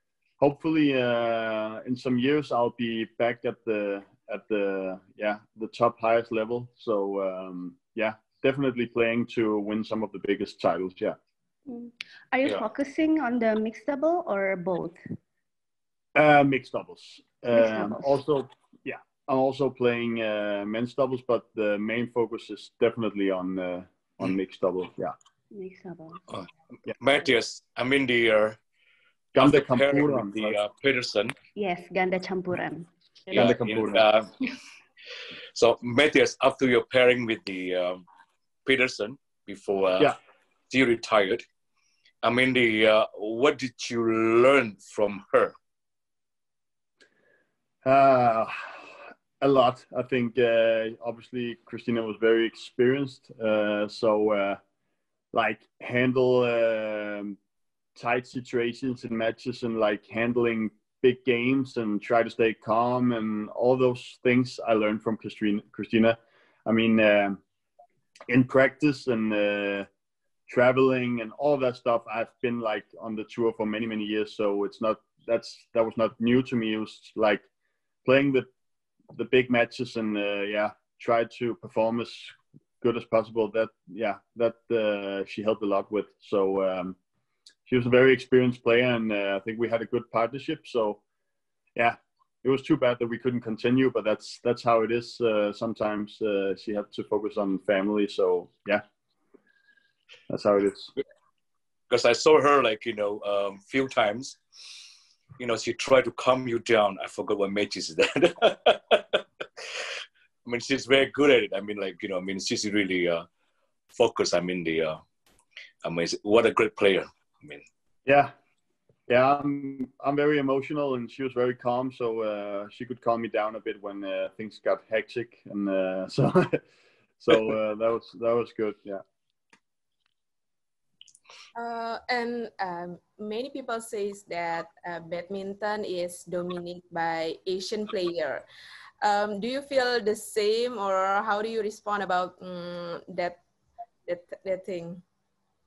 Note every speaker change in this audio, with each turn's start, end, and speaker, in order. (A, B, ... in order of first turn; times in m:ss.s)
0:00.4-0:11.2 A
0:11.7-0:15.0 B
0:16.1-0:25.1 A
0:17.5-0:18.2 B
0:25.5-0:26.2 B
0:26.3-0:28.6 C
0:29.3-0:30.6 A
0:29.4-0:31.3 C
0:31.6-0:32.9 B
0:33.3-0:34.0 A
0:33.3-0:34.5 C
0:35.5-0:38.0 C
0:38.6-0:40.1 C
0:40.7-0:41.4 C
0:42.2-0:45.5 C
0:47.8-0:48.9 A
0:49.4-0:54.6 A
0:55.3-0:57.4 A
0:58.0-1:07.4 A
1:08.3-1:09.9 A
1:10.5-1:17.4 A
1:18.0-1:18.5 A
1:19.1-1:27.0 A
1:27.7-1:31.0 A
1:31.8-1:38.8 A
1:40.3-1:40.9 A
1:41.9-1:44.4 C
1:45.4-1:49.2 C
1:50.4-1:53.2 C
1:53.9-1:55.0 C
1:55.8-1:57.6 C
1:58.0-1:58.3 A
1:59.1-2:06.6 A
2:07.2-2:09.0 A
2:11.6-2:18.4 D
2:19.0-2:23.4 D
2:24.0-2:25.0 D